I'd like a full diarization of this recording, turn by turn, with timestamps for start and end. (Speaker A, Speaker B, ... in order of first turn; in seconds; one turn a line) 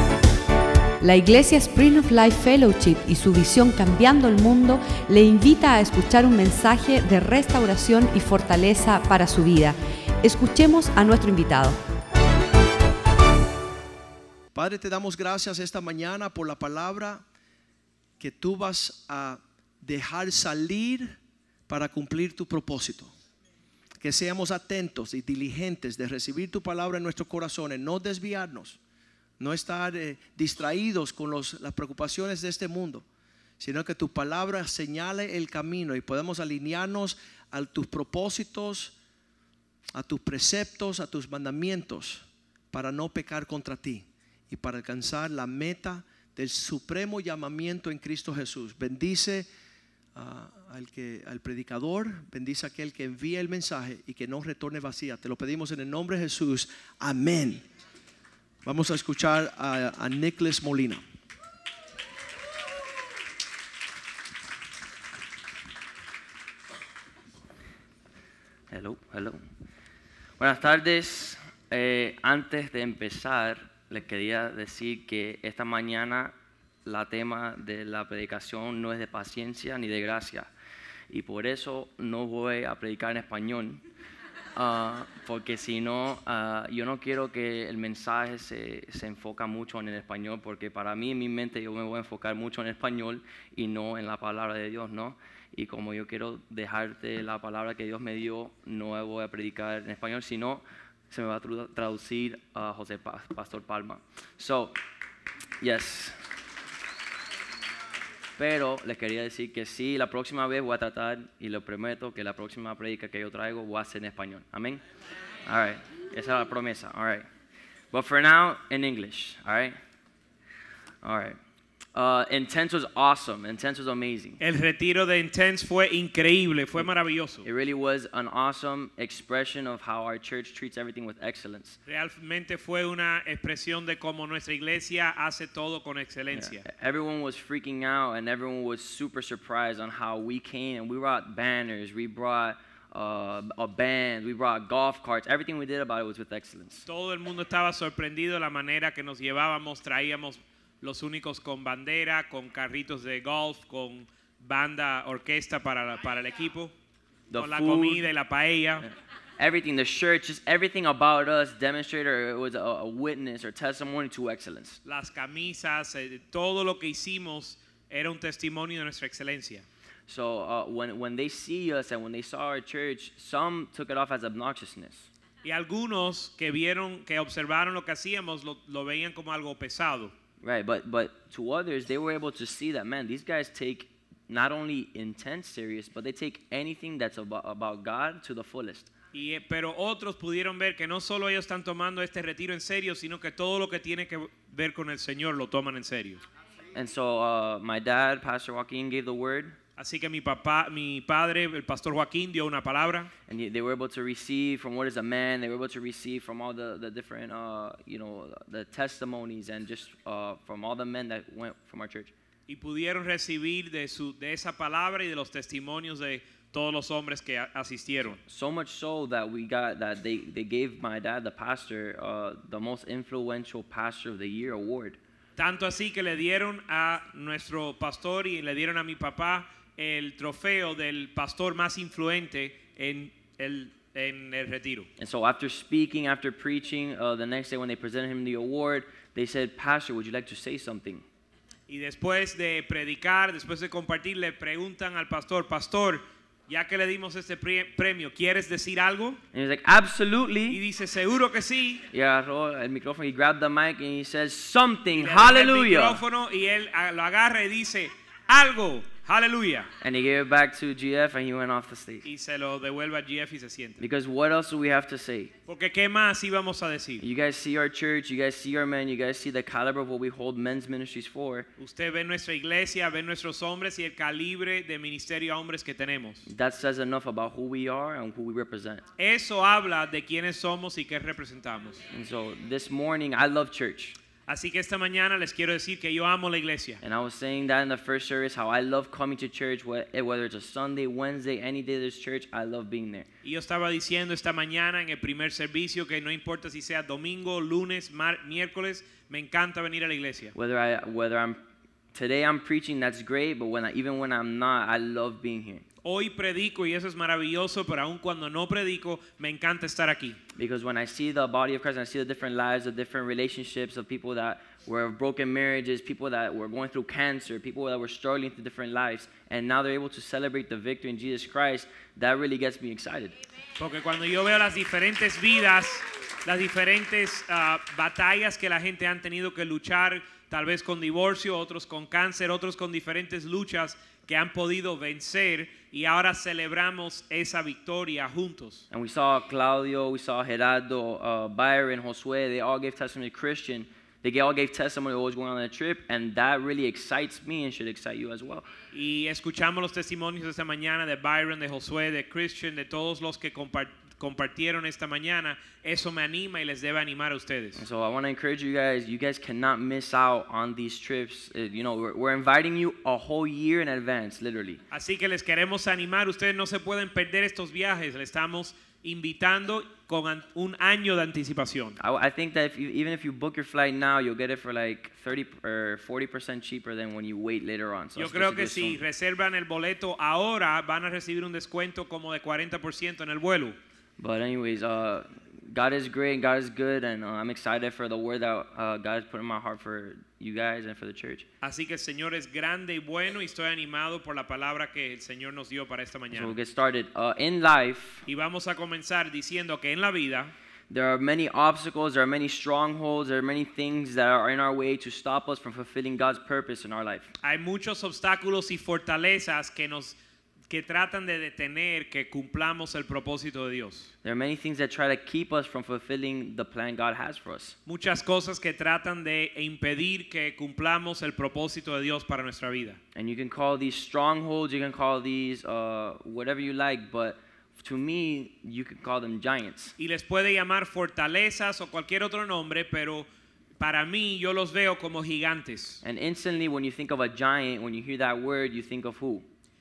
Speaker A: 1.0-11.8
Speaker B: 14.5-17.2
Speaker B: 18.2-21.2
Speaker B: 21.7-23.1
Speaker B: 24.0-28.8
Speaker B: 29.4-33.0
Speaker B: 33.6-38.9
Speaker B: 40.0-49.5
Speaker B: 50.1-57.6
Speaker B: 58.6-61.0
Speaker C: 68.7-69.4
Speaker C: 70.4-76.3
Speaker C: 76.8-80.5
Speaker C: 81.1-83.8
Speaker C: 84.6-104.8
Speaker C: 105.6-106.2
Speaker C: 108.4-114.8
Speaker C: 115.5-117.3
Speaker C: 117.9-119.8
Speaker C: 121.0-121.4
Speaker C: 121.9-124.4
Speaker D: 124.4-127.5
Speaker C: 127.4-131.8
Speaker D: 131.9-136.7
Speaker C: 136.3-146.9
Speaker D: 146.9-156.7
Speaker C: 157.3-158.1
Speaker D: 157.4-158.8
Speaker C: 158.8-164.8
Speaker D: 164.8-169.6
Speaker C: 170.1-175.1
Speaker D: 175.4-180.1
Speaker C: 180.4-188.9
Speaker D: 189.1-196.2
Speaker C: 196.8-199.6
Speaker D: 199.8-203.1
Speaker C: 203.3-212.1
Speaker D: 212.5-218.2
Speaker C: 218.3-225.0
Speaker D: 225.4-234.9
Speaker C: 235.0-241.1
Speaker D: 241.7-249.2
Speaker C: 249.3-250.6
Speaker D: 250.5-251.8
Speaker C: 251.9-256.0
Speaker D: 255.0-259.7
Speaker C: 259.8-262.1
Speaker D: 262.1-263.8
Speaker C: 263.8-265.3
Speaker D: 265.5-267.0
Speaker C: 267.0-271.5
Speaker D: 271.6-276.3
Speaker C: 276.3-278.8
Speaker D: 279.0-281.8
Speaker C: 281.9-284.0
Speaker D: 284.3-286.8
Speaker C: 286.8-293.1
Speaker D: 293.2-300.3
Speaker C: 300.4-301.4
Speaker C: 301.9-305.6
Speaker D: 305.8-310.2
Speaker C: 310.4-323.1
Speaker D: 323.6-338.6
Speaker C: 338.7-348.5
Speaker D: 348.7-357.6
Speaker C: 357.6-364.6
Speaker D: 364.7-371.8
Speaker C: 371.8-378.8
Speaker D: 378.0-383.6
Speaker C: 384.0-391.3
Speaker D: 391.4-396.4
Speaker C: 396.1-398.1
Speaker D: 398.1-400.3
Speaker C: 400.7-407.1
Speaker D: 407.2-410.0
Speaker D: 410.5-413.9
Speaker C: 414.0-417.6
Speaker D: 417.7-422.8
Speaker C: 422.9-429.8
Speaker D: 429.8-433.1
Speaker D: 433.6-435.8
Speaker C: 435.8-439.3